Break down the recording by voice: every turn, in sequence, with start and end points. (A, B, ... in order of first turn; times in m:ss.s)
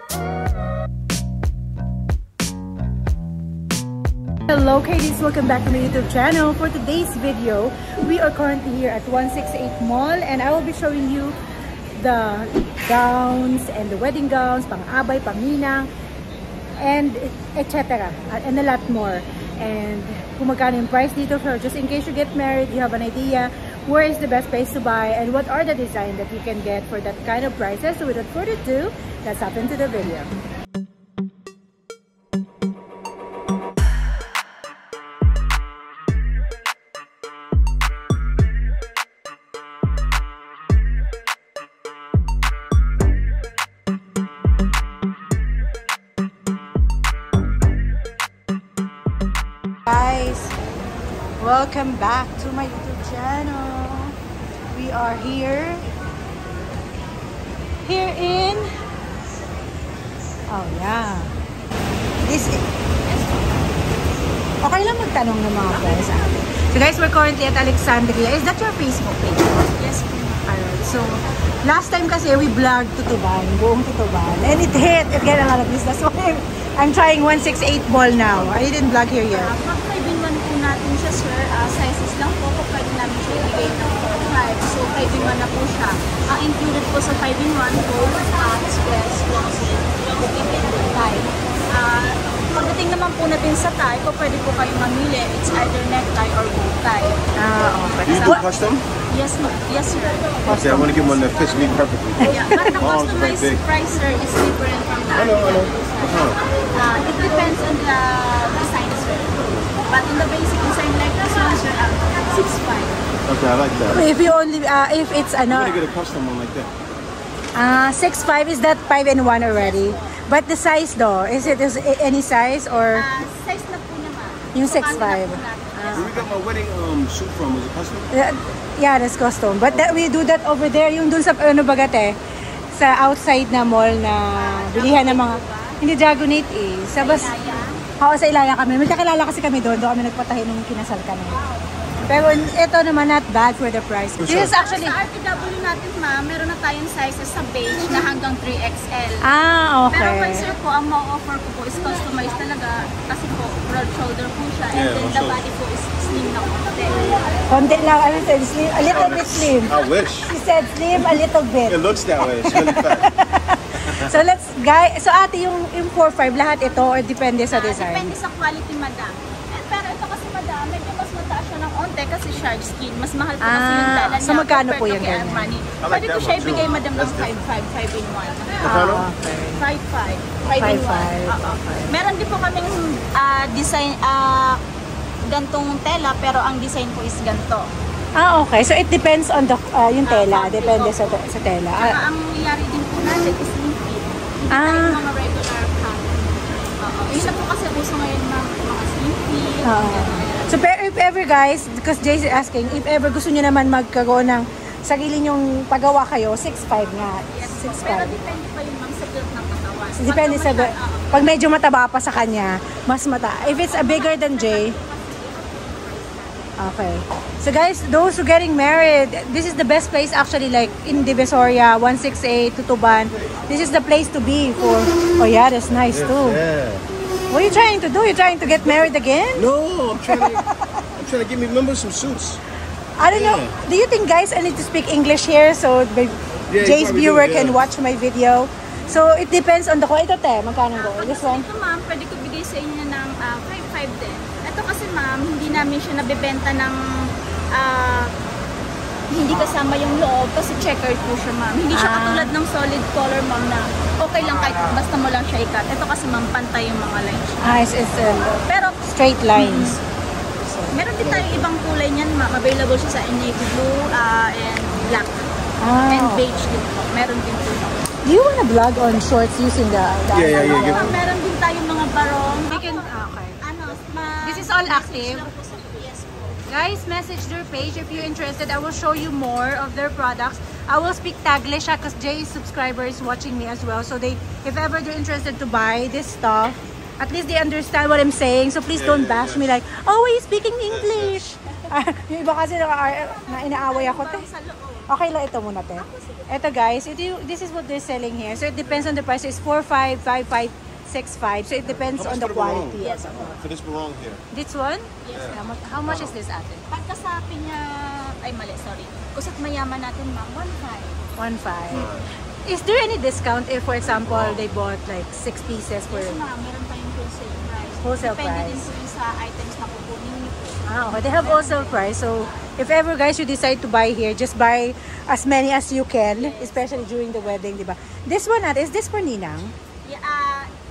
0:04.5-0:11.4 A
0:12.0-0:15.9 A
0:16.8-0:30.3 A
0:49.8-0:50.5 A
0:51.4-0:54.1 A
0:54.7-0:55.8 A
0:57.8-0:58.7 A
1:00.5-1:01.3 A
1:02.2-1:02.6 A
1:03.0-1:03.8 B
1:04.6-1:09.7 A
1:05.7-1:06.3 B
1:09.7-1:10.5 B
1:10.4-1:19.5 A
1:19.3-1:37.2 B
1:37.4-1:38.4 A
1:38.0-1:38.8 C
1:38.1-1:38.4 B
1:39.1-1:40.4 B
1:40.4-1:41.2 A
1:40.5-1:43.6 C
1:42.2-1:42.8 A
1:42.2-1:53.0 B
1:45.1-1:46.4 C
1:53.2-1:54.0 C
1:53.9-1:55.8 A
1:55.4-1:56.7 C
1:57.6-2:03.0 A
1:59.5-2:00.2 B
2:02.9-2:06.3 B
2:04.5-2:06.3 A
2:05.9-2:08.1 C
2:08.1-2:12.2 A
2:09.6-2:10.0 C
2:12.7-2:17.3 A
2:14.3-2:15.8 B
2:17.0-2:17.8 B
2:18.0-2:21.4 A
2:21.3-2:21.8 B
2:22.0-2:25.0 A
2:24.2-2:24.5 C
2:24.3-2:29.3 B
2:29.2-2:30.5 A
2:29.9-2:37.0 B
2:34.7-2:35.4 C
2:36.9-2:37.2 C
2:37.5-2:48.1 A
2:38.9-2:40.3 C
2:41.7-2:43.1 C
2:43.8-2:44.2 C
2:47.5-2:58.8 B
2:53.4-2:55.5 A
2:55.8-2:57.3 C
2:58.6-2:59.6 A
2:58.6-2:59.1 C
2:59.5-3:04.6 B
3:00.6-3:01.9 A
3:05.3-3:07.7 B
3:08.1-3:12.0 A
3:10.0-3:11.2 B
3:11.8-3:20.6 B
3:14.5-3:15.0 A
3:19.6-3:28.2 A
3:27.2-3:31.3 B
3:30.0-3:34.8 A
3:33.5-3:36.5 B
3:36.6-3:46.4 A
3:45.9-3:46.8 C
3:47.3-3:49.5 A
3:48.6-3:52.4 C
3:50.0-3:50.7 A
3:53.0-4:01.4 A
3:53.0-3:53.6 C
3:56.5-3:57.6 C
4:00.8-4:08.1 B
4:09.1-4:17.7 B
4:11.7-4:12.3 A
4:17.4-4:19.8 A
4:18.3-4:18.8 B
4:19.3-4:19.8 B
4:20.4-4:20.7 A
4:20.7-4:25.3 B
4:21.0-4:21.5 C
4:25.6-4:26.2 A
4:25.8-4:27.9 B
4:28.0-4:31.0 A
4:30.1-4:31.0 C
4:30.3-4:36.3 B
4:32.4-4:33.4 A
4:34.2-4:35.3 A
4:36.5-4:54.3 A
4:48.7-4:49.6 C
4:50.6-4:51.2 C
4:52.9-4:54.9 B
4:54.9-5:03.4 A
4:55.8-4:56.3 B
4:58.6-4:59.0 C
5:01.6-5:04.2 C
5:02.8-5:03.4 B
5:04.3-5:06.6 A
5:05.0-5:05.6 B
5:05.1-5:06.1 C
5:06.7-5:11.0 B
5:11.2-5:16.2 A
5:11.7-5:12.1 C
5:13.8-5:14.4 C
5:15.9-5:22.0 B
5:17.8-5:18.7 A
5:20.6-5:29.5 A
5:26.1-5:27.4 B
5:29.8-5:30.5 B